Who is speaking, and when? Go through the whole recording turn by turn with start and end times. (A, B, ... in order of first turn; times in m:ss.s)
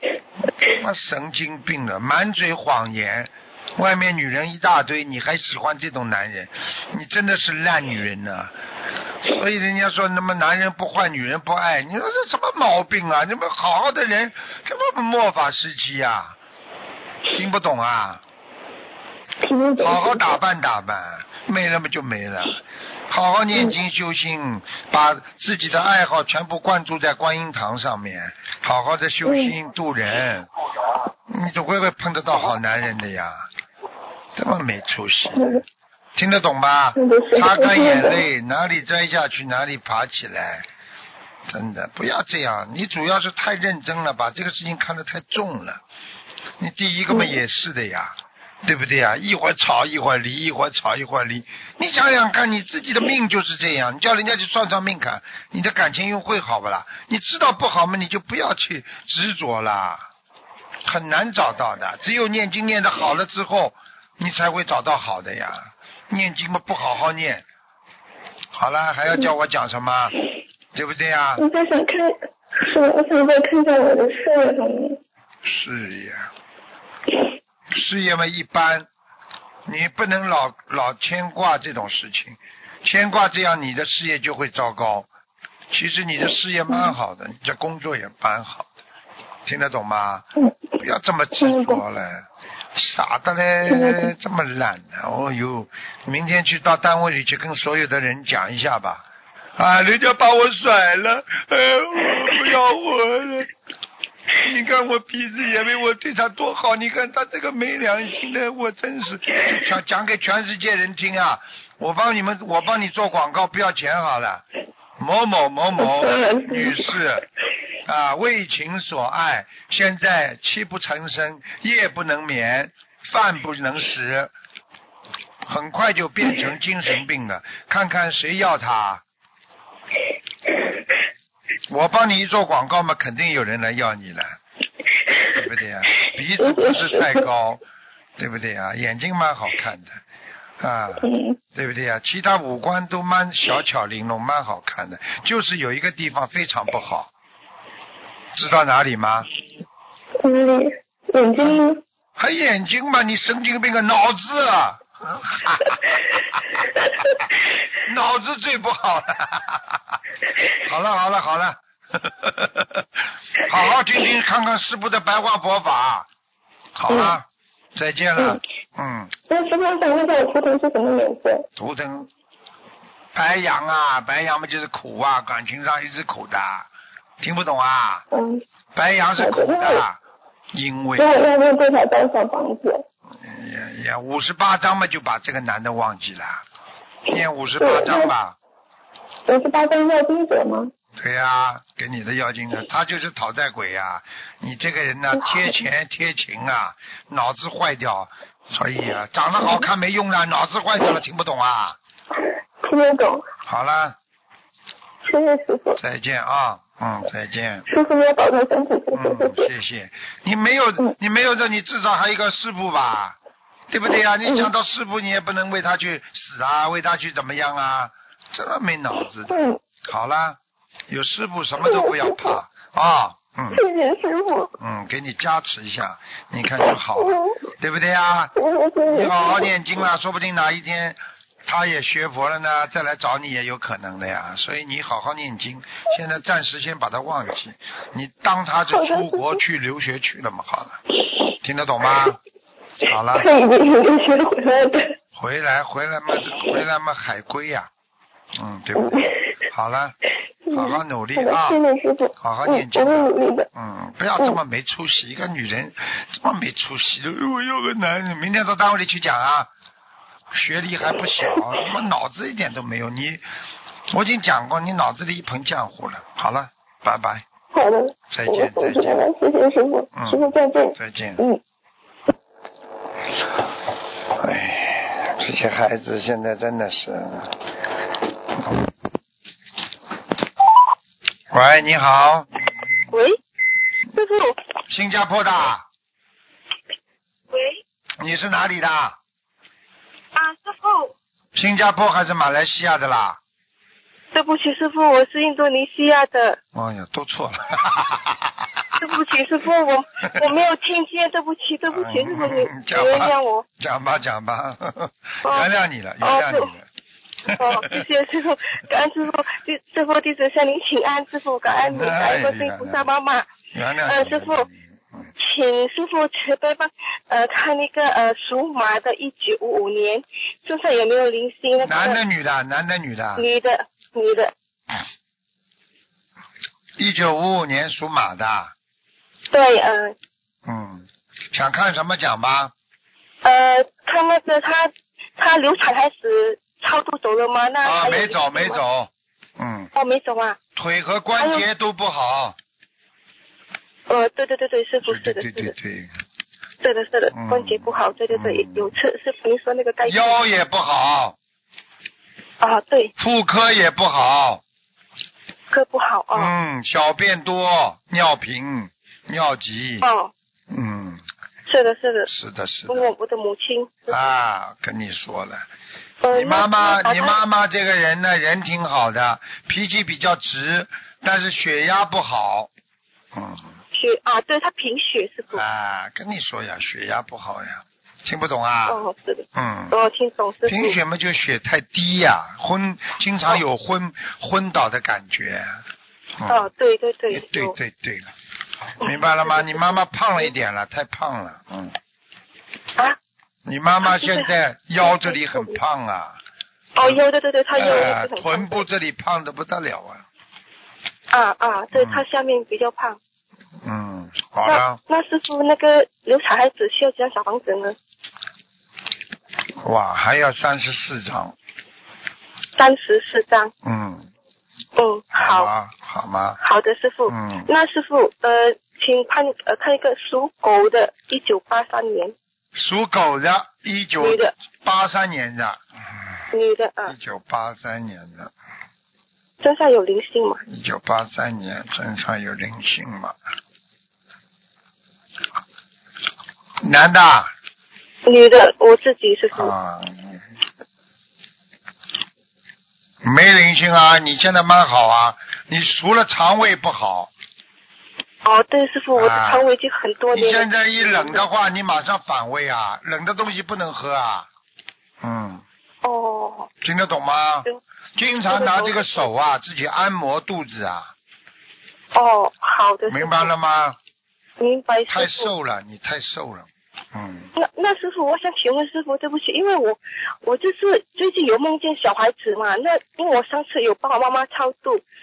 0:00.6-0:08.5 A
0:09.2-0:16.4 A
0:17.3-0:18.2 A
0:19.4-0:20.4 B
0:19.8-0:30.5 A
0:29.3-0:29.6 B
0:31.3-0:33.5 A
0:34.4-0:35.6 A
0:35.4-0:35.6 B
0:36.2-0:40.7 A
0:37.0-0:38.2 B
0:41.5-0:45.8 A
0:46.6-1:00.1 A
1:00.8-1:07.4 A
1:08.6-1:10.2 A
1:10.7-1:11.4 A
1:11.4-1:15.0 B
1:15.4-1:16.3 A
1:17.7-1:18.9 A
1:19.7-1:25.1 A
1:25.7-1:28.7 A
1:29.5-1:30.3 A
1:30.8-1:39.1 A
1:31.4-1:31.8 B
1:33.7-1:34.1 B
1:39.6-1:43.5 A
1:44.4-1:54.4 A
1:55.0-1:57.2 A
1:55.8-1:57.0 B
1:57.8-2:04.3 A
2:05.4-2:09.0 A
2:11.7-2:14.4 A
2:15.3-2:17.6 A
2:16.4-2:17.2 B
2:18.2-2:20.0 A
2:20.6-2:27.1 A
2:21.0-2:21.4 B
2:28.3-2:29.3 A
2:30.2-2:31.8 B
2:32.2-2:37.2 A
2:37.8-2:40.0 A
2:40.6-2:46.1 A
2:46.8-2:49.1 A
2:46.9-2:47.2 B
2:49.3-2:51.5 B
2:51.6-2:52.1 A
2:53.2-2:56.7 A
2:57.2-2:58.1 A
2:58.1-2:58.4 B
2:58.8-3:00.0 A
2:59.2-2:59.8 B
3:00.5-3:01.2 A
3:01.0-3:02.8 B
3:03.2-3:06.4 A
3:07.1-3:08.4 A
3:07.6-3:08.1 B
3:09.3-3:10.7 B
3:11.0-3:21.8 A
3:22.6-3:23.3 B
3:23.4-3:24.0 A
3:25.0-3:25.8 B
3:25.8-3:27.7 A
3:27.7-3:29.5 B
3:28.9-3:33.2 A
3:33.7-3:43.6 A
3:39.3-3:39.6 B
3:41.6-3:42.4 B
3:43.5-3:44.6 B
3:44.6-3:48.3 A
3:46.7-3:47.4 B
3:48.4-3:49.5 B
3:48.9-4:00.8 A
3:58.7-3:59.4 B
4:01.4-4:02.2 A
4:02.8-4:03.3 A
4:03.1-4:05.0 B
4:05.1-4:07.7 A
4:08.4-4:10.0 A
4:08.8-4:09.2 B
4:10.5-4:13.5 B
4:10.5-4:11.6 A
4:12.2-4:19.5 A
4:20.3-4:23.2 A
4:23.9-4:27.2 A
4:27.5-4:31.4 B
4:28.1-4:29.1 A
4:30.0-4:31.2 A
4:34.1-4:37.4 A
4:38.4-4:38.7 A
4:41.3-4:42.3 A
4:42.9-4:43.2 C
4:43.9-4:44.4 C
4:44.7-4:45.7 A
4:47.3-4:47.6 C
4:48.0-4:49.0 A
4:50.2-4:50.9 C
4:51.4-4:53.2 A
4:54.1-4:56.4 C
4:56.5-4:58.7 A
4:58.8-5:03.5 C
5:00.0-5:00.3 A
5:01.7-5:06.7 A
5:05.2-5:05.5 C
5:06.0-5:06.5 C
5:07.3-5:07.8 A
5:07.3-5:13.3 C
5:11.6-5:12.9 A
5:13.5-5:15.1 A
5:13.8-5:14.5 C
5:15.2-5:22.0 C
5:21.6-5:23.3 A
5:23.2-5:24.3 C
5:26.8-5:28.5 A
5:29.3-5:30.0 C
5:30.4-5:32.5 A
5:33.2-5:38.6 C
5:37.6-5:39.7 A
5:39.7-5:40.4 C
5:40.6-5:42.4 A
5:41.2-5:41.4 C
5:43.9-5:45.5 C
5:44.8-5:45.9 A
5:46.6-5:50.2 C
5:47.1-5:48.7 A
5:49.9-5:51.2 A
5:52.4-5:52.9 C
5:53.0-5:54.4 A
5:55.5-5:56.3 C
5:56.1-5:59.9 A
5:59.8-6:00.1 C
6:00.5-6:01.0 A
6:01.5-6:02.1 C
6:02.1-6:02.9 A
6:02.7-6:04.0 C
6:03.9-6:05.5 A
6:06.0-6:07.2 C
6:06.1-6:12.5 A
6:13.1-6:13.5 A
6:13.7-6:15.4 C
6:15.3-6:18.8 A
6:18.7-6:20.8 C
6:19.4-6:19.8 A
6:20.4-6:25.6 A
6:26.2-6:26.5 A
6:26.3-6:27.6 C
6:27.1-6:28.1 A
6:28.8-6:31.8 A
6:28.8-6:29.8 C
6:33.4-6:36.2 A
6:33.8-6:35.6 C
6:36.8-6:38.6 C
6:37.6-6:40.0 A
6:41.1-6:43.0 C
6:41.7-6:42.0 A
6:43.6-6:44.8 A
6:44.4-6:47.8 C
6:49.6-6:51.4 A
6:52.6-6:53.5 C
6:53.6-6:54.1 A
6:54.8-6:55.5 C
6:55.2-6:56.4 A
6:56.4-7:02.2 C
6:57.1-6:57.5 A
7:02.6-7:05.6 A
7:04.0-7:04.3 C
7:06.3-7:07.0 C
7:06.9-7:08.3 A
7:09.4-7:10.4 C
7:10.5-7:13.2 A
7:16.6-7:17.3 A
7:18.1-7:19.5 C
7:19.3-7:20.2 A
7:23.0-7:27.1 A
7:28.2-7:31.3 C
7:29.0-7:29.5 A
7:30.1-7:34.3 A
7:35.0-7:35.4 A
7:35.8-7:36.5 C
7:36.6-7:40.9 A
7:38.3-7:39.0 C
7:41.9-7:43.3 C
7:42.9-7:43.8 A
7:44.4-7:45.3 C
7:44.9-7:47.3 A
7:47.4-7:54.8 C